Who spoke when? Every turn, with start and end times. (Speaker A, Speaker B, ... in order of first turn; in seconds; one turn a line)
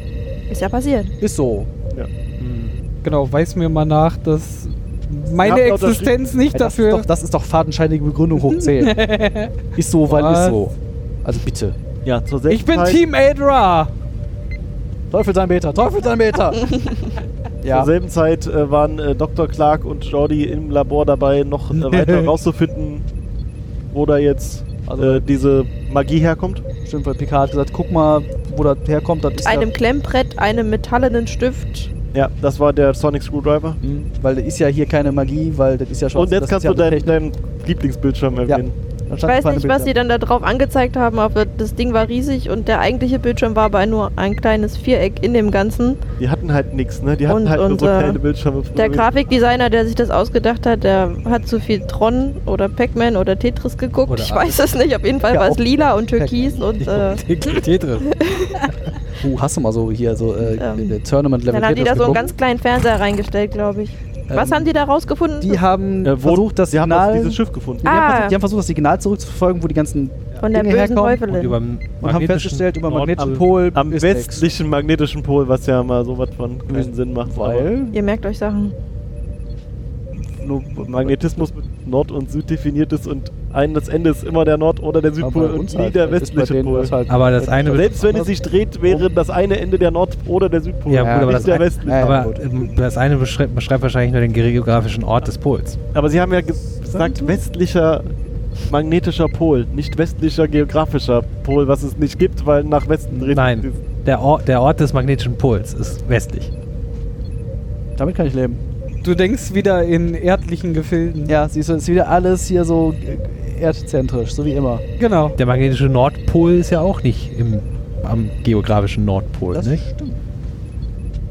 Speaker A: 0.5-1.1
Speaker B: 1.2-1.7
Speaker C: 1.9-2.8
Speaker D: 3.0-7.1
Speaker C: 5.4-6.1
Speaker B: 6.5-9.0
Speaker D: 8.5-10.6
Speaker B: 9.8-11.8
Speaker C: 12.0-13.0
Speaker D: 12.5-13.9
Speaker B: 15.1-16.7
Speaker B: 17.6-17.9
Speaker C: 17.7-23.1
Speaker C: 23.9-26.6
Speaker B: 24.9-25.3
Speaker B: 26.9-29.7
Speaker A: 29.4-31.9
Speaker C: 32.1-33.8
Speaker B: 33.8-37.2
Speaker C: 36.1-38.8
Speaker B: 38.5-39.9
Speaker A: 39.2-46.0
Speaker C: 46.2-49.1
Speaker A: 47.3-48.2
Speaker A: 48.8-57.2
Speaker E: 54.1-54.7
Speaker B: 55.3-56.6
Speaker E: 56.8-58.1
Speaker A: 58.0-58.7
Speaker B: 59.2-62.3
Speaker A: 60.5-61.0
Speaker A: 61.5-65.6
Speaker B: 64.3-64.7
Speaker B: 65.4-71.3
Speaker C: 66.0-67.9
Speaker A: 67.8-68.4
Speaker A: 70.4-71.6
Speaker E: 71.3-73.5
Speaker B: 72.0-74.5
Speaker C: 73.8-77.7
Speaker B: 76.7-78.0
Speaker A: 77.9-78.7
Speaker B: 80.2-81.5
Speaker C: 80.9-86.9
Speaker B: 85.2-88.3
Speaker E: 87.1-88.0
Speaker C: 87.7-92.3
Speaker B: 88.8-89.1
Speaker E: 90.9-95.8
Speaker B: 91.0-92.6
Speaker C: 95.9-98.2
Speaker B: 96.8-97.4
Speaker C: 98.7-103.8
Speaker B: 103.1-103.4
Speaker E: 103.3-106.5
Speaker B: 108.0-108.6
Speaker D: 109.0-111.3
Speaker B: 111.3-114.8
Speaker D: 115.0-115.4
Speaker E: 115.4-119.8
Speaker B: 119.5-120.2